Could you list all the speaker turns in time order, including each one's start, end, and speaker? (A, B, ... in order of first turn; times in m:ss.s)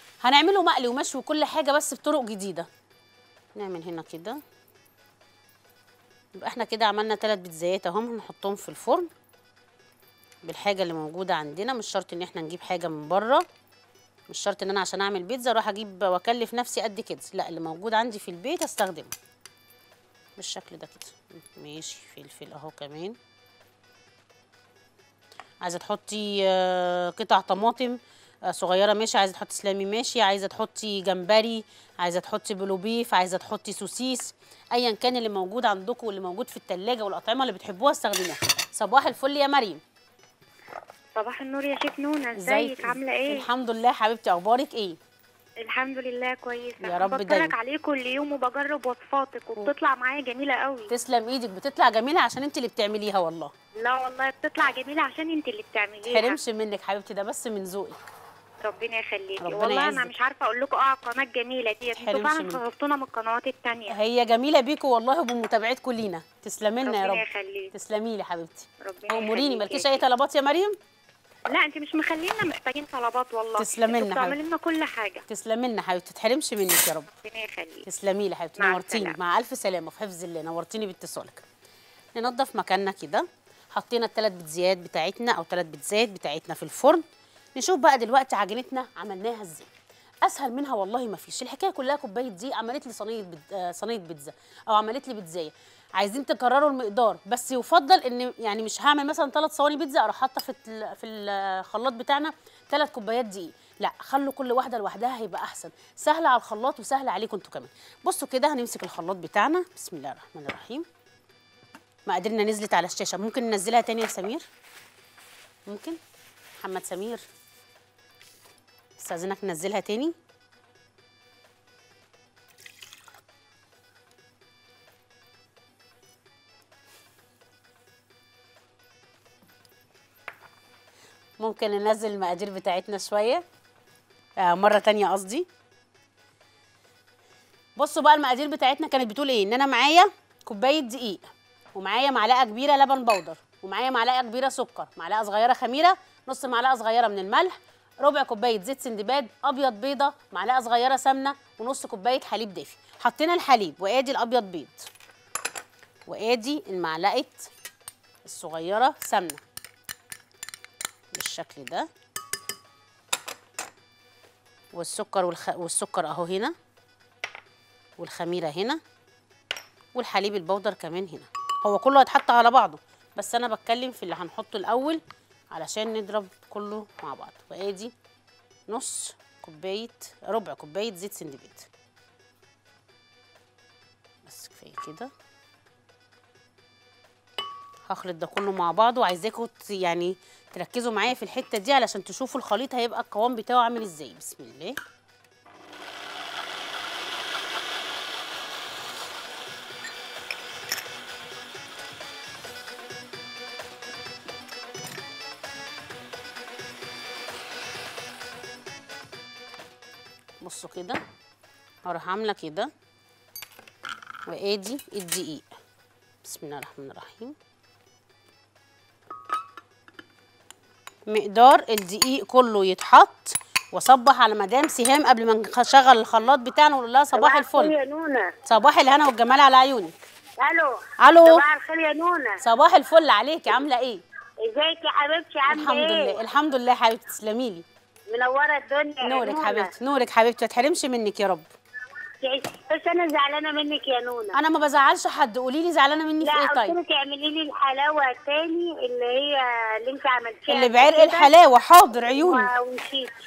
0:00.2-0:02.7 A
0:03.6-0:04.4 A
0:06.4-0:09.1 A
0:10.4-0:13.4 A
0:14.3-0:19.1 A
0:20.4-0:23.2 A
0:25.6-0:39.8 A
0:41.2-0:43.5 B
0:42.4-0:45.0 A
0:45.6-0:50.9 B
0:46.8-0:47.6 A
0:50.9-0:53.5 A
0:53.8-0:56.4 B
0:56.0-0:58.0 A
0:58.6-1:04.0 B
0:59.4-1:00.1 A
1:01.9-1:02.6 A
1:03.9-1:10.8 A
1:06.8-1:07.7 B
1:08.8-1:10.0 B
1:11.5-1:15.2 B
1:13.6-1:14.4 A
1:15.3-1:17.1 A
1:17.2-1:17.8 B
1:17.9-1:21.4 A
1:18.6-1:19.2 B
1:22.2-1:27.0 A
1:27.6-1:29.7 A
1:30.2-1:50.9 A
1:52.1-1:54.4 A
1:55.7-1:56.0 A
1:56.6-1:57.2 A
1:59.0-2:00.2 A
2:11.4-2:13.4 A
2:14.4-2:15.5 A
2:17.8-2:21.2 A
2:21.8-2:34.9 A
2:36.1-2:37.5 A
2:38.2-2:39.4 A
2:41.2-2:41.9 A
2:44.7-2:46.5 A
2:48.0-2:48.8 A
2:50.0-2:55.0 A
2:55.5-2:57.9 A
2:58.7-3:01.7 A
3:04.2-3:05.1 A
3:07.9-3:14.8 A
3:30.4-3:31.0 A
3:31.8-3:32.7 A
3:34.3-3:35.5 A
3:36.2-3:37.4 A
3:41.1-3:47.7 A
3:47.2-3:48.4 C
3:48.5-3:50.0 A
3:50.4-3:52.4 C
3:51.0-3:51.4 A
3:52.4-3:54.0 A
3:54.5-3:56.2 C
3:55.5-3:57.6 A
3:58.1-3:59.7 C
3:59.0-4:01.5 A
4:02.2-4:04.4 C
4:04.3-4:06.8 A
4:06.2-4:11.3 C
4:10.5-4:12.5 A
4:12.0-4:13.1 C